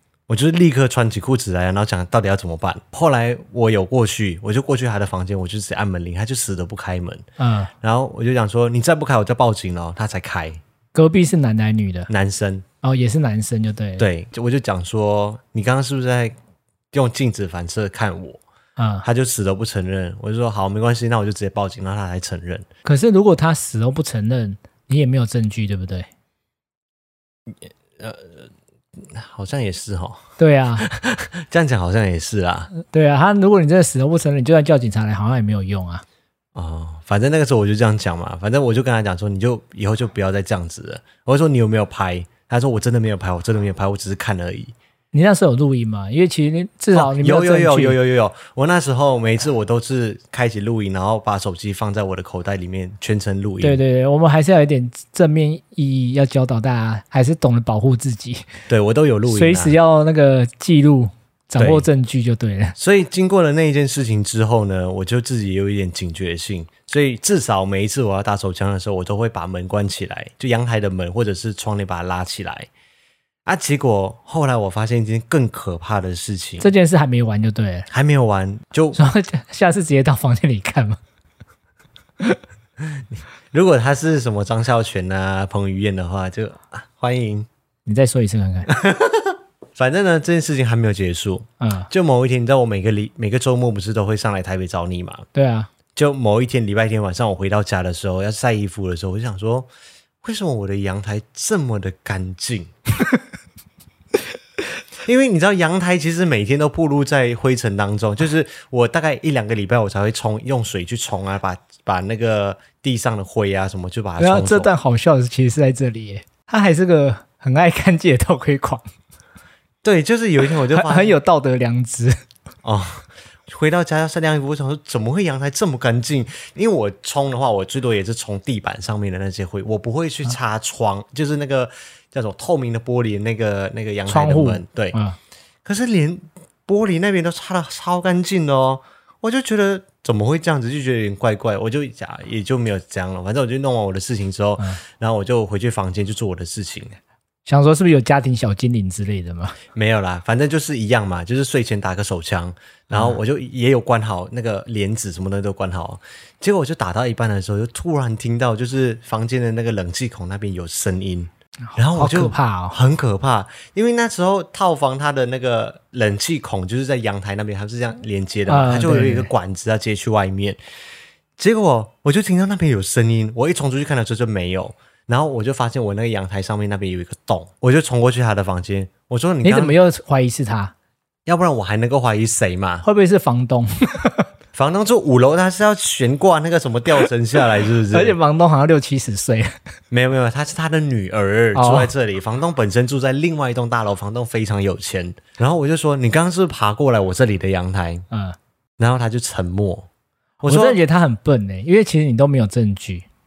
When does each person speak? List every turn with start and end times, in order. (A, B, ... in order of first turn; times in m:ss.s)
0:00.3-0:07.2 A
0:07.4-0:07.7 B
0:07.8-0:10.6 A
0:10.9-0:12.1 B
0:12.1-0:12.6 A
0:12.8-0:14.1 B
0:14.0-0:16.4 A
0:16.9-0:18.4 A
0:18.8-0:19.0 B
0:19.0-0:22.6 A
0:22.8-0:26.1 B
0:27.5-0:32.7 A
0:30.4-0:30.9 B
0:32.8-0:36.0 B
0:36.6-0:44.7 A
0:45.1-0:48.0 B
0:47.0-0:53.8 A
0:53.6-0:58.5 B
0:58.7-0:59.8 A
0:59.3-1:02.8 B
1:01.6-1:01.9 A
1:02.8-1:12.7 A
1:13.5-1:16.7 A
1:16.6-1:17.9 B
1:17.9-1:19.0 A
1:19.0-1:21.0 B
1:22.8-1:27.5 A
1:27.9-1:28.7 B
1:28.7-1:35.2 A
1:31.6-1:31.9 B
1:35.3-1:35.7 B
1:36.0-1:39.7 A
1:40.2-1:42.7 A
1:45.0-1:54.7 A
1:54.2-1:58.8 B
1:59.8-2:01.2 A
2:00.6-2:02.2 B
2:02.6-2:15.0 A
2:14.1-2:15.2 B
2:15.6-2:27.0 A
2:27.5-2:29.6 B
2:29.7-2:50.6 A
2:32.9-2:33.2 B
2:41.7-2:42.8 B
2:48.5-2:49.3 B
2:51.4-2:59.7 A
2:59.4-3:00.7 B
3:01.3-3:02.8 A
3:02.8-3:04.3 B
3:04.6-3:08.2 A
3:07.9-3:09.5 B
3:09.9-3:18.0 A
3:11.5-3:11.9 B
3:18.1-3:18.4 B
3:18.8-3:19.9 A
3:20.4-3:20.8 A
3:20.4-3:23.1 B